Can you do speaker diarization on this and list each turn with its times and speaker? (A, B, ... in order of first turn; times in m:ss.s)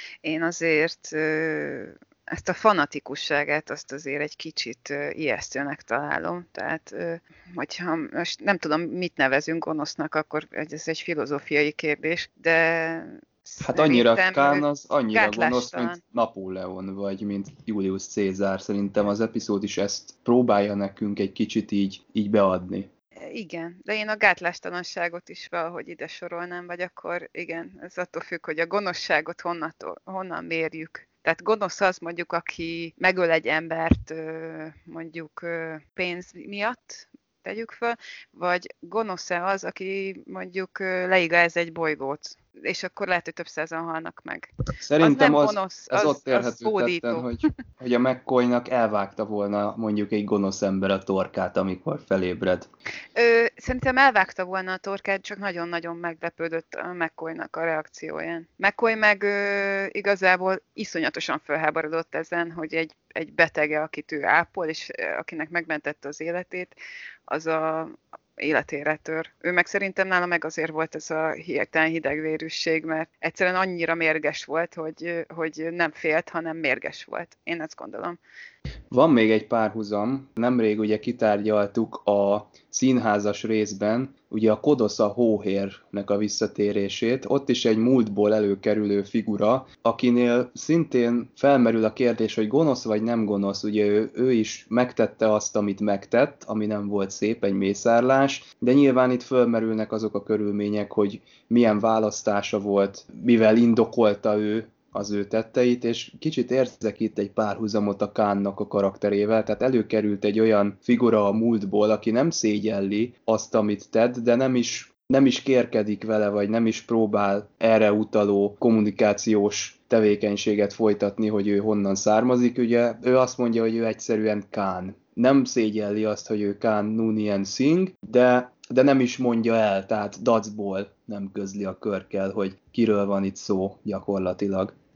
0:00.2-0:16.0 A
0:13.6-0:22.9 B
0:23.2-0:47.3 A
0:44.8-0:52.7 B
0:53.1-1:06.8 A
1:07.3-1:18.2 A
1:18.9-2:14.7 B